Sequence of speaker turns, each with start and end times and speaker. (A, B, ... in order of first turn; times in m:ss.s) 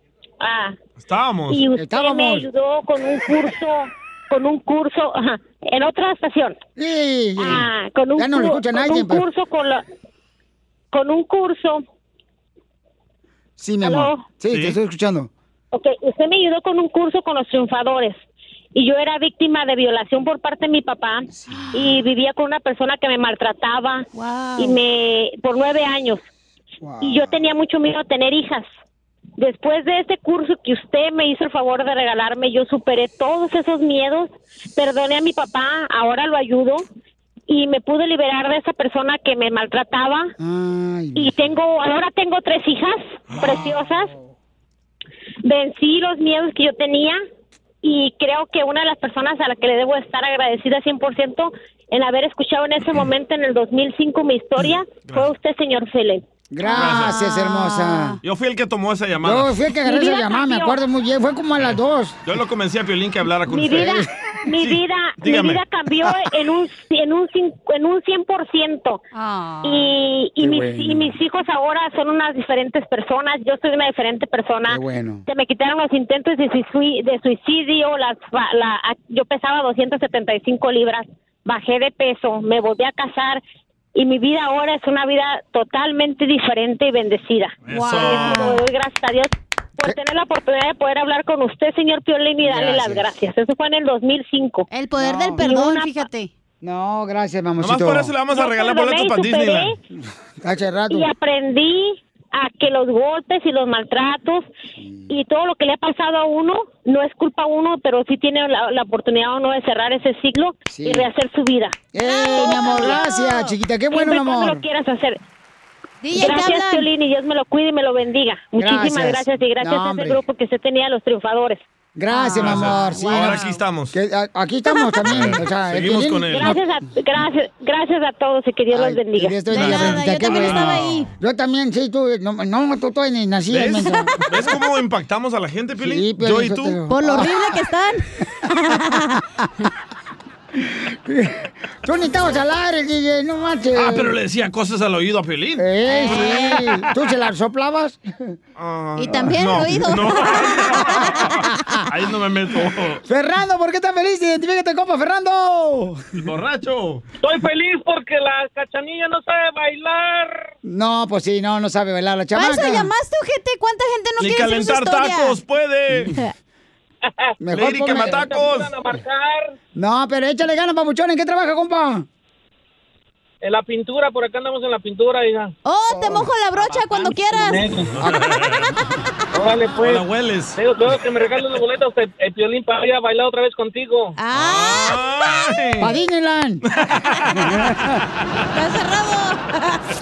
0:00.4-0:00.8 A
0:01.0-0:01.6 B
0:01.5-0:06.6 A
0:01.8-0:02.5 C
0:06.8-0:09.2 C
0:07.4-0:09.8 A
0:10.9-0:11.8 A
0:13.6-0:15.3 C
0:13.8-0:14.2 A
0:14.5-0:14.8 B
0:15.7-0:18.2 A
0:18.7-0:24.0 A
0:21.3-0:22.0 C
0:24.1-0:24.8 D
0:24.6-0:26.2 A
0:26.8-0:27.4 C
0:27.0-0:28.6 A
0:29.4-0:36.8 A
0:37.5-0:40.3 A
0:40.4-0:41.3 C
0:41.1-0:44.1 A
0:43.4-0:44.2 C
0:45.4-0:47.2 A
0:47.8-0:56.2 A
0:55.0-0:55.3 B
0:56.5-0:58.2 C
0:56.6-0:58.2 D
0:56.7-0:57.2 B
0:58.2-0:59.5 B
0:59.2-1:02.2 C
0:59.8-1:00.8 A
1:02.2-1:04.0 B
1:03.5-1:09.0 A
1:03.6-1:04.3 C
1:04.6-1:05.6 B
1:09.1-1:09.9 D
1:09.6-1:23.4 A
1:10.4-1:11.1 C
1:14.7-1:15.2 C
1:24.0-1:34.6 A
1:27.6-1:28.5 B
1:27.7-1:28.6 D
1:32.4-1:33.1 C
1:34.7-1:36.3 D
1:35.0-1:35.4 C
1:35.4-1:35.9 A
1:36.6-1:38.1 C
1:37.6-1:39.7 B
1:38.3-1:39.8 A
1:40.4-1:41.1 C
1:40.9-1:44.5 A
1:44.8-1:45.1 C
1:45.1-1:53.4 A
1:50.7-1:51.0 C
1:51.9-1:54.6 C
1:52.0-1:53.4 D
1:53.9-1:55.2 A
1:56.0-1:56.9 D
1:56.1-2:01.6 A
1:58.6-2:00.2 C
2:02.0-2:03.4 C
2:02.1-2:03.6 D
2:02.4-2:03.9 B
2:03.9-2:06.6 C
2:05.1-2:06.6 B
2:06.3-2:09.4 A
2:08.7-2:14.2 C
2:09.5-2:11.1 D
2:09.5-2:11.1 B
2:13.5-2:16.8 B
2:13.8-2:14.2 D
2:15.8-2:17.5 C
2:16.9-2:19.1 D
2:20.5-2:24.1 C
2:23.8-2:25.7 B
2:25.6-2:28.3 C
2:25.9-2:26.6 D
2:26.5-2:26.8 B
2:28.6-2:33.0 B
2:29.0-2:31.8 D
2:29.1-2:29.4 C
2:30.8-2:31.8 C
2:33.0-2:36.0 C
2:36.2-2:37.0 B
2:37.2-2:40.5 E
2:40.6-2:42.9 C
2:42.3-2:45.4 D
2:44.2-2:46.1 B
2:47.0-2:47.3 E
2:47.4-2:48.8 C
2:47.5-2:48.7 B
2:48.0-2:49.5 E
2:49.7-2:52.0 C
2:53.4-2:55.5 E
2:55.6-2:57.7 D
2:56.0-2:56.3 C
2:56.6-2:58.7 B
2:57.4-2:57.9 E
2:58.0-2:58.3 C
2:59.3-3:00.0 E
2:59.7-3:00.6 B
3:00.6-3:04.2 E
3:04.2-3:05.5 D
3:04.3-3:05.9 B
3:05.8-3:06.6 C
3:06.6-3:07.2 B
3:07.0-3:07.6 D
3:07.4-3:07.9 C
3:08.5-3:09.8 D